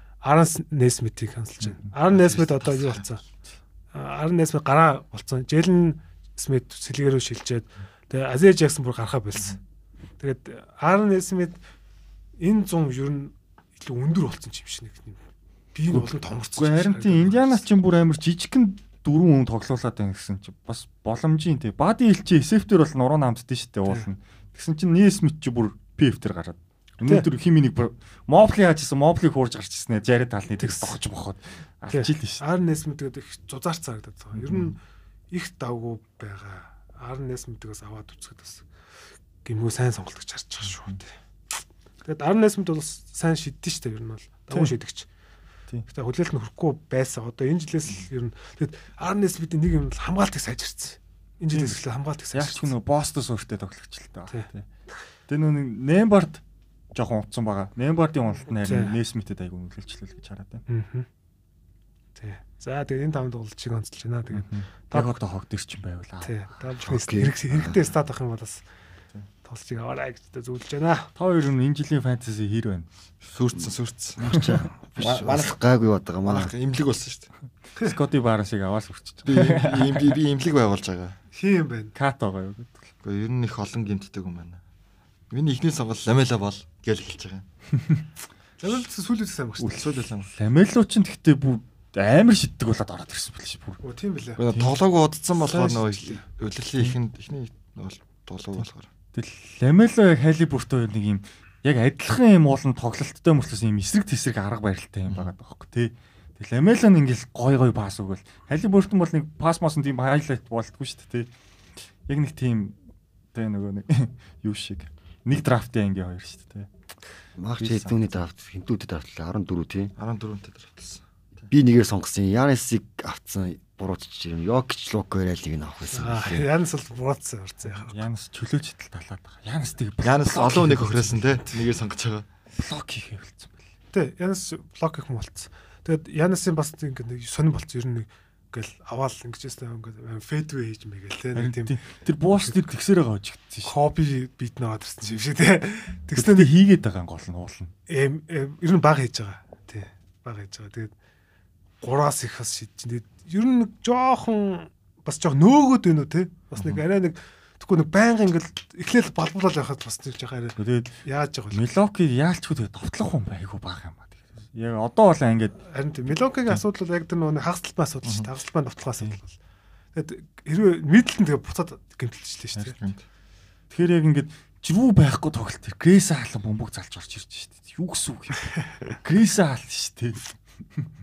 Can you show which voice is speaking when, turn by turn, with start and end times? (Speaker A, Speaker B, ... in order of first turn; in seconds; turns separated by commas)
Speaker A: 0.2-3.2, Speaker B: 1.6-1.9, Speaker C: 2.1-3.0, Speaker A: 3.9-9.6, Speaker A: 10.2-11.6, Speaker A: 12.4-15.2, Speaker A: 15.7-17.7, Speaker B: 15.9-32.4, Speaker A: 30.6-31.0, Speaker A: 31.9-34.8, Speaker B: 34.4-34.8, Speaker A: 35.3-38.7, Speaker A: 39.5-41.1, Speaker B: 40.7-41.0, Speaker A: 42.0-45.1, Speaker A: 45.9-52.7, Speaker B: 51.5-54.7, Speaker B: 55.3-56.4, Speaker B: 56.9-60.6, Speaker A: 58.6-59.0, Speaker A: 60.7-61.1, Speaker A: 62.2-65.2, Speaker B: 64.3-66.3, Speaker A: 66.2-68.6, Speaker D: 66.8-67.8, Speaker A: 69.4-71.1, Speaker B: 71.2-72.9, Speaker C: 73.2-74.4, Speaker D: 73.6-76.5, Speaker B: 74.3-74.7, Speaker C: 75.0-75.6, Speaker C: 76.2-77.3, Speaker B: 77.8-80.2, Speaker C: 79.3-81.2, Speaker A: 81.3-82.0, Speaker B: 82.0-82.9, Speaker C: 83.0-84.6, Speaker C: 85.3-87.5, Speaker A: 88.6-89.9, Speaker B: 89.6-93.8, Speaker C: 89.8-90.3, Speaker A: 93.8-94.4, Speaker C: 94.4-98.9, Speaker B: 94.5-94.8, Speaker A: 95.3-96.2, Speaker B: 98.6-111.3, Speaker B: 112.1-112.8, Speaker B: 113.3-116.7, Speaker D: 117.4-119.9, Speaker B: 117.6-117.9, Speaker C: 117.6-117.9, Speaker C: 120.0-121.0, Speaker D: 121.5-126.5, Speaker A: 125.9-128.0, Speaker B: 127.9-131.4, Speaker C: 130.0-132.3, Speaker B: 132.6-133.6, Speaker A: 133.9-141.8, Speaker B: 141.3-143.7, Speaker A: 143.7-146.5, Speaker B: 146.2-147.7, Speaker A: 147.9-150.9, Speaker A: 151.8-161.6, Speaker B: 160.6-161.0, Speaker B: 161.5-165.6, Speaker A: 165.7-169.4, Speaker A: 169.9-172.8, Speaker B: 173.7-180.9